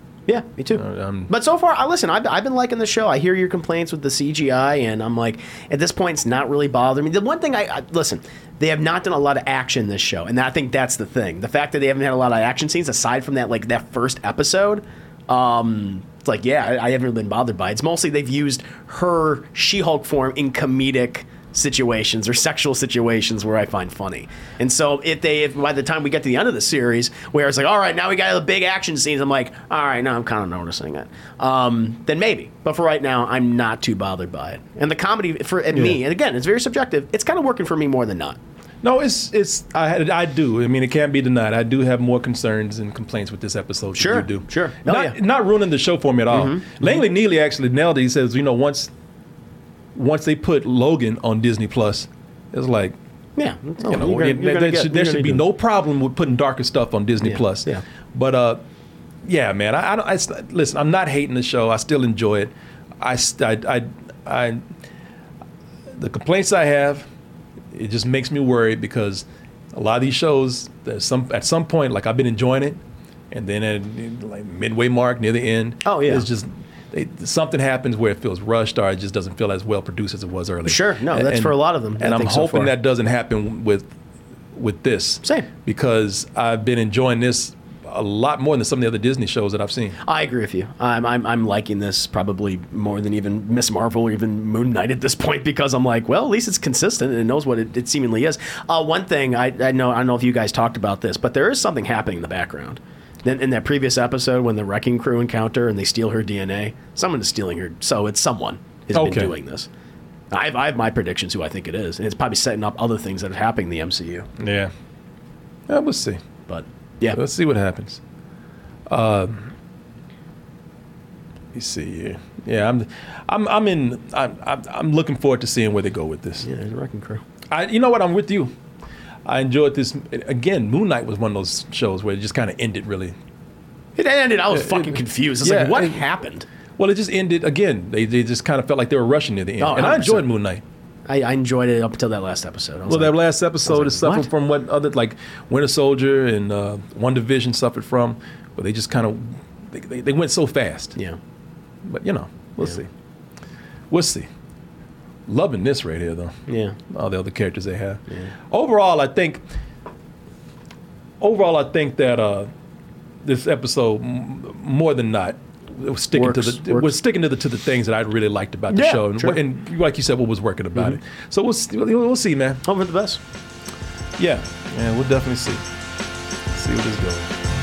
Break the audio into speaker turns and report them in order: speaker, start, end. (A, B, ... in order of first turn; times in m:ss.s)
0:00.3-0:38.4 A
0:00.7-0:01.3 B
0:35.7-0:36.0 B
0:38.8-0:48.9 B
0:43.9-0:45.2 A
0:46.3-0:47.0 A
0:49.9-0:53.0 B
0:53.4-0:55.4 A
0:53.8-0:58.6 B
0:57.2-0:57.8 A
0:59.2-1:04.7 B
1:06.0-1:07.1 B
1:07.7-1:23.9 B
1:15.8-1:16.2 A
1:20.6-1:22.7 A
1:24.5-1:30.0 B
1:30.0-1:49.7 A
1:48.9-1:49.3 B
1:50.3-1:54.3 A
1:54.4-1:54.7 B
1:55.7-1:56.2 B
1:56.5-1:57.2 A
1:57.1-1:58.0 B
1:58.9-1:59.5 B
2:01.5-2:06.5 B
2:06.4-2:07.2 A
2:07.5-2:08.5 B
2:09.2-2:13.2 B
2:14.0-2:16.5 A
2:14.5-2:16.0 B
2:16.8-2:20.6 B
2:19.6-2:20.3 A
2:21.1-2:24.3 A
2:22.9-2:31.0 B
2:31.8-2:32.9 B
2:33.9-2:34.3 B
2:35.3-2:39.4 B
2:36.5-2:36.8 A
2:41.2-2:42.5 B
2:43.2-2:52.6 B
2:46.1-2:47.0 A
2:48.7-2:49.4 A
2:52.6-2:53.2 A
2:54.2-2:55.6 B
2:56.5-2:57.3 B